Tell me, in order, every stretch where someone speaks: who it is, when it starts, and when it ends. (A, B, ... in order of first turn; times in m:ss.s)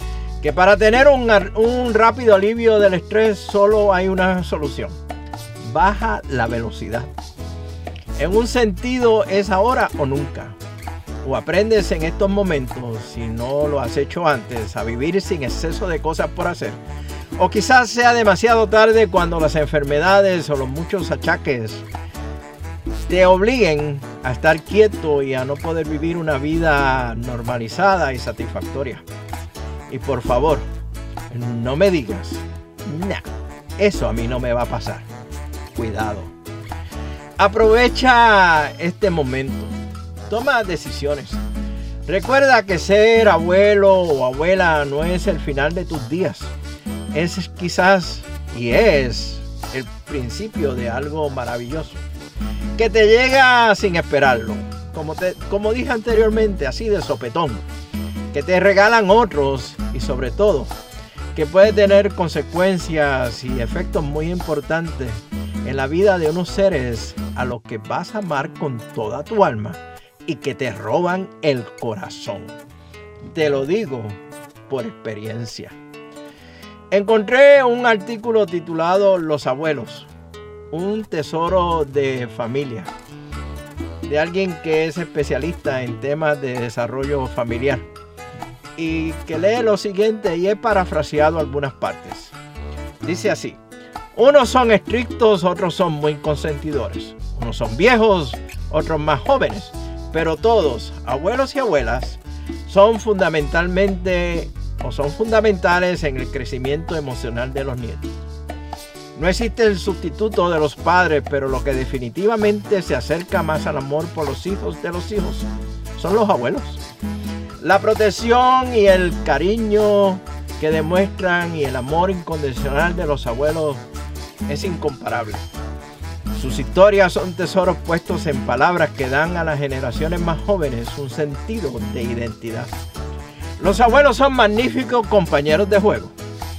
0:00.4-0:05.0 A
0:05.6-0:07.1 A
0:08.2-0:10.6 A
0:11.2-0:16.8 A
0:17.4-0:21.8 A
0:23.1-0:29.0 A
0:29.9-0:30.7 A
0:31.3-0:33.2 A
0:33.8-0:35.1 A
0:35.7-0:36.3 A
0:37.4-0:39.8 A
0:40.3-0:41.4 A
0:42.1-0:46.5 A
0:47.1-0:52.0 A
0:52.8-0:57.6 A
0:58.3-1:00.7 A
1:01.3-1:12.6 A
1:13.3-1:15.8 A
1:16.9-1:20.1 A
1:20.7-1:22.9 A
1:24.1-1:27.9 A
1:28.8-1:32.3 A
1:33.0-1:33.6 A
1:34.1-1:48.1 A
1:49.2-1:56.8 A
1:57.6-2:03.8 A
2:04.5-2:05.5 A
2:06.4-2:12.7 A
2:13.6-2:16.2 A